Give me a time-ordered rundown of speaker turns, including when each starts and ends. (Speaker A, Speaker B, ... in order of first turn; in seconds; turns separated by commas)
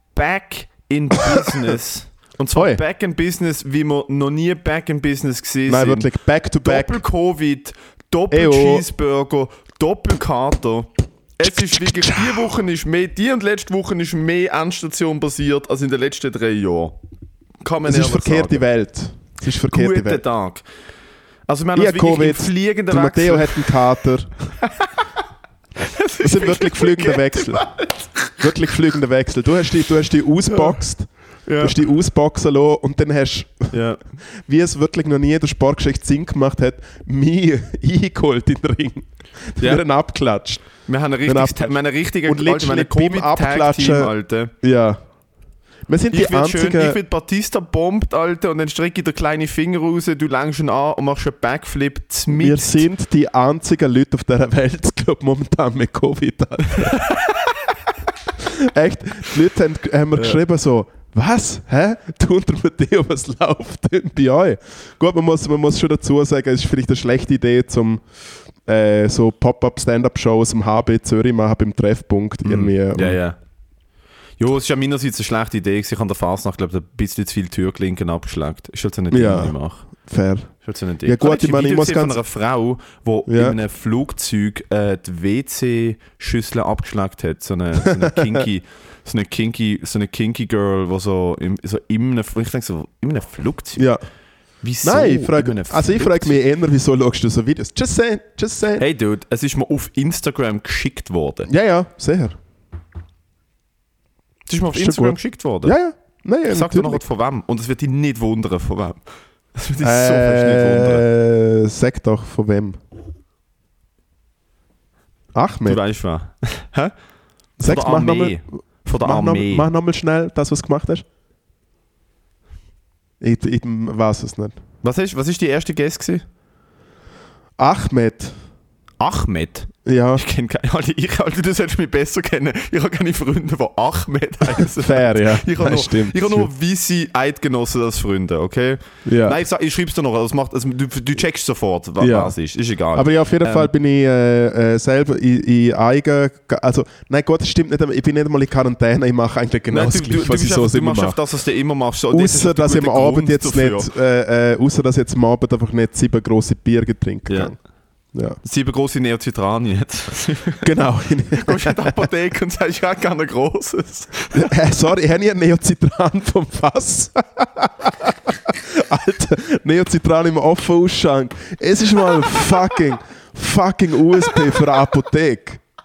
Speaker A: 0.1-6.1, Speaker B: 2.5-2.8, Speaker B: 5.7-7.0, Speaker A: 6.6-17.0, Speaker B: 8.3-8.8, Speaker B: 11.4-12.5, Speaker A: 17.6-18.6, Speaker B: 17.9-20.2, Speaker A: 19.7-20.6, Speaker A: 21.5-23.8, Speaker B: 21.7-24.3, Speaker A: 24.6-25.1, Speaker A: 25.8-28.7, Speaker B: 26.2-27.6, Speaker B: 28.4-31.1, Speaker A: 31.5-31.7, Speaker B: 31.6-33.7, Speaker A: 33.7-34.0, Speaker B: 34.5-40.7, Speaker A: 40.9-44.5, Speaker B: 41.2-41.7, Speaker B: 42.2-44.1, Speaker B: 44.6-45.0, Speaker B: 45.9-47.0, Speaker A: 46.1-52.9, Speaker B: 52.3-57.0, Speaker A: 56.8-57.4, Speaker B: 58.4-68.0, Speaker B: 68.6-73.2, Speaker A: 72.4-73.4, Speaker A: 74.4-79.8, Speaker B: 79.1-80.5, Speaker A: 80.6-93.9, Speaker B: 81.0-82.2, Speaker B: 83.3-83.6, Speaker B: 87.8-88.3, Speaker B: 93.8-94.0, Speaker A: 94.6-96.4, Speaker B: 94.8-98.8, Speaker A: 98.8-101.5, Speaker B: 101.5-102.4, Speaker A: 104.5-105.7, Speaker B: 104.7-107.0, Speaker A: 106.5-109.0, Speaker A: 109.5-111.0, Speaker B: 109.8-112.8, Speaker B: 115.3-115.8, Speaker A: 115.6-116.9, Speaker B: 117.6-118.4, Speaker A: 117.6-119.7, Speaker B: 119.0-121.0, Speaker B: 123.2-124.5, Speaker A: 124.8-126.2, Speaker B: 127.6-128.3, Speaker A: 129.0-143.7, Speaker B: 129.8-130.2, Speaker B: 134.5-136.5, Speaker B: 139.0-139.4, Speaker B: 142.0-142.3, Speaker B: 142.9-151.2, Speaker A: 149.7-153.9, Speaker B: 152.1-157.5, Speaker A: 157.3-157.5, Speaker B: 158.1-158.4, Speaker A: 158.4-160.7, Speaker B: 160.6-162.0, Speaker A: 161.3-164.5, Speaker B: 164.3-175.6, Speaker A: 172.2-172.7